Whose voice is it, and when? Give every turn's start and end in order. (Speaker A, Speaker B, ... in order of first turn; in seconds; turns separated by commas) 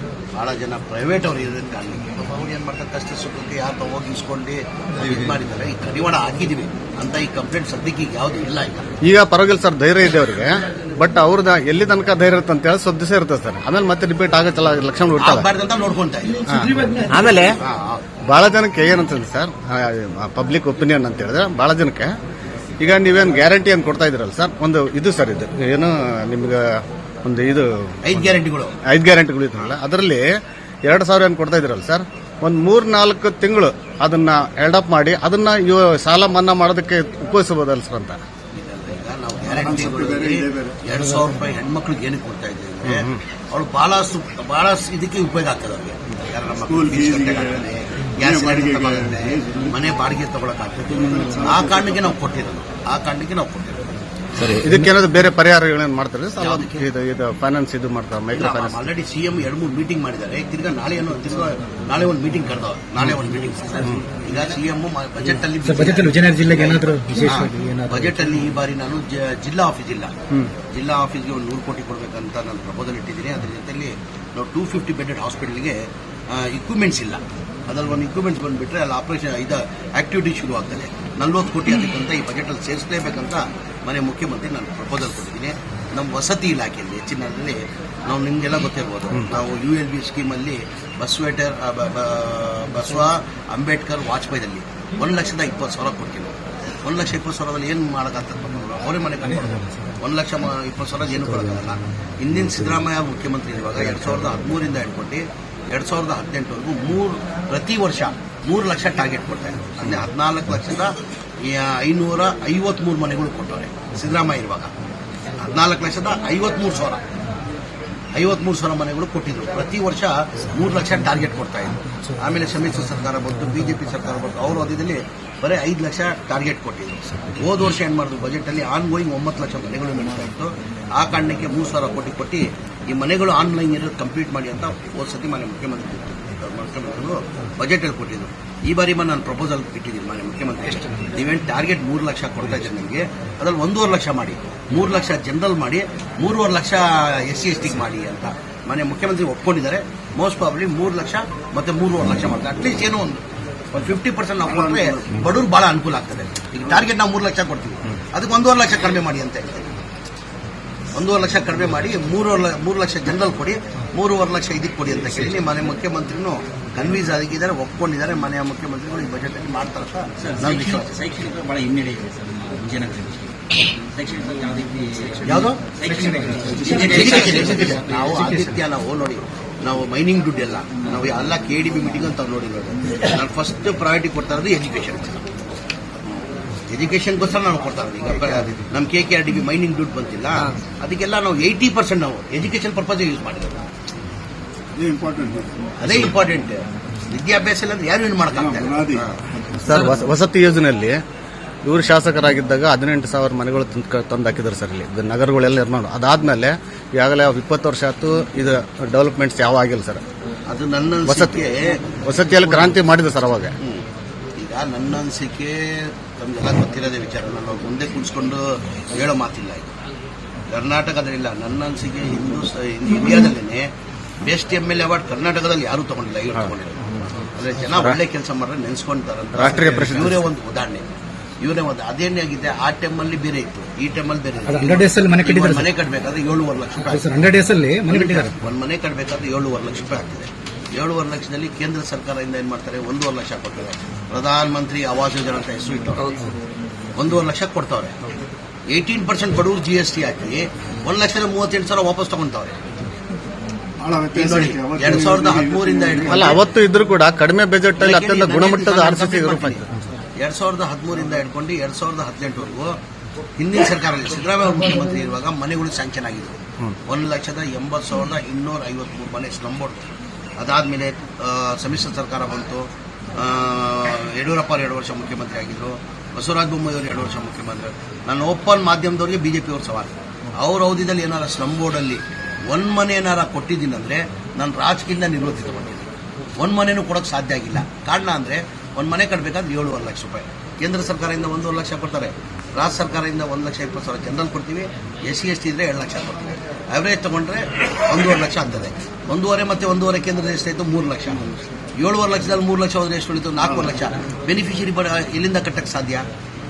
Speaker A: 0.3-8.9, Speaker B: 9.1-15.5, Speaker A: 15.2-16.6, Speaker B: 16.5-17.6, Speaker A: 17.4-18.0, Speaker B: 18.3-22.1, Speaker B: 22.8-28.3, Speaker A: 28.0-28.8, Speaker B: 28.9-30.3, Speaker B: 30.9-38.2, Speaker A: 38.5-53.9, Speaker C: 39.5-40.8, Speaker B: 42.9-43.2, Speaker C: 46.6-47.6, Speaker C: 48.2-49.8, Speaker C: 50.9-52.1, Speaker D: 54.4-54.7, Speaker B: 54.6-58.9, Speaker A: 56.4-56.9, Speaker A: 58.3-70.1, Speaker D: 65.7-67.6, Speaker E: 65.7-68.1, Speaker A: 70.7-75.8, Speaker A: 76.3-111.0, Speaker A: 111.5-114.7, Speaker A: 115.4-117.0, Speaker A: 118.2-159.7, Speaker C: 154.4-155.4, Speaker A: 160.9-170.9, Speaker D: 170.2-178.4, Speaker E: 171.0-171.4, Speaker E: 172.0-172.7, Speaker E: 174.2-175.3, Speaker A: 175.2-175.6, Speaker E: 175.8-176.9, Speaker C: 176.6-177.1, Speaker A: 176.6-185.2, Speaker E: 177.4-178.5, Speaker A: 186.7-193.7, Speaker C: 194.8-195.9, Speaker A: 195.8-199.2, Speaker C: 198.3-199.9, Speaker B: 199.6-201.0, Speaker B: 201.7-210.0, Speaker A: 210.5-211.8, Speaker B: 211.1-211.4, Speaker B: 212.1-213.5, Speaker A: 212.4-212.7, Speaker A: 214.4-219.8, Speaker A: 220.5-223.7, Speaker A: 224.2-230.8, Speaker B: 229.4-230.2, Speaker A: 231.4-237.3, Speaker E: 234.5-235.6, Speaker D: 234.6-235.4, Speaker E: 237.0-238.1, Speaker A: 237.9-246.1, Speaker D: 237.9-238.2, Speaker A: 247.0-247.9, Speaker A: 248.7-252.6, Speaker C: 253.8-256.4, Speaker A: 254.2-256.4, Speaker B: 256.1-259.7, Speaker A: 257.8-259.6, Speaker A: 260.2-262.8, Speaker A: 263.4-269.9, Speaker A: 270.4-301.3, Speaker A: 301.8-306.1, Speaker C: 303.4-303.8